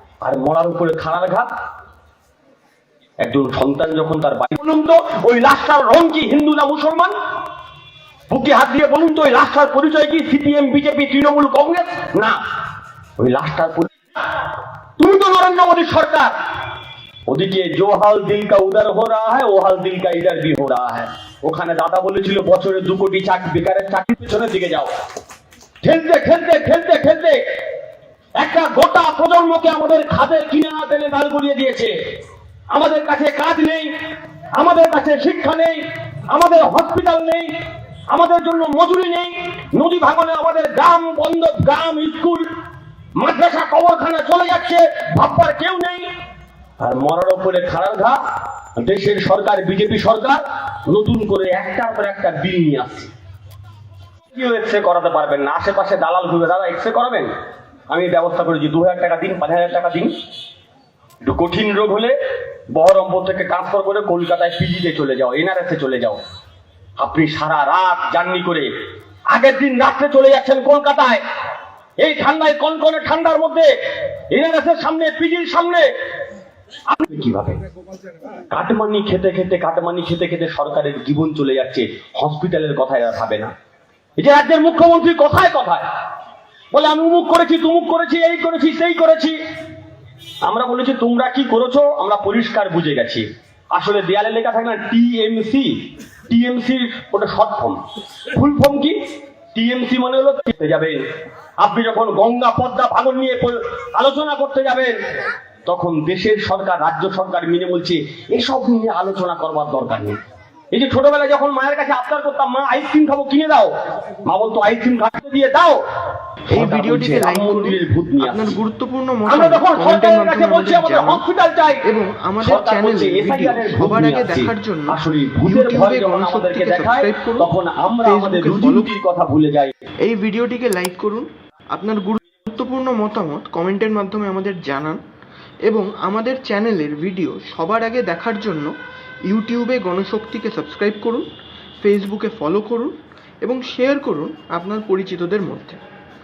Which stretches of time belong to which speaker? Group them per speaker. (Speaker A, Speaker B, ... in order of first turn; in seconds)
Speaker A: 0.2-1.5, 3.2-7.1, 8.3-12.4, 13.2-13.9, 15.0-16.3, 17.3-24.9, 25.8-27.4, 28.4-31.9, 32.7-33.9, 34.6-37.5, 38.1-42.5, 43.2-46.1, 46.8-48.2, 48.8-53.1, 54.3-57.3, 57.9-60.1, 61.2-62.1, 62.7-66.2, 67.0-68.7, 69.3-71.2, 72.0-73.7, 74.3-75.9, 76.9-77.6, 78.5-83.5, 84.2-85.9, 86.7-89.4, 90.5-99.0, 99.5-101.0, 101.6-105.0, 105.7-110.2, 110.7-113.7, 114.2-115.8, 116.5-118.6, 119.3-121.8, 122.4-129.7
Speaker B: 116.5-121.2, 121.9-127.5, 128.0-128.9, 130.0-135.0, 135.7-138.7, 139.3-141.3, 141.8-145.8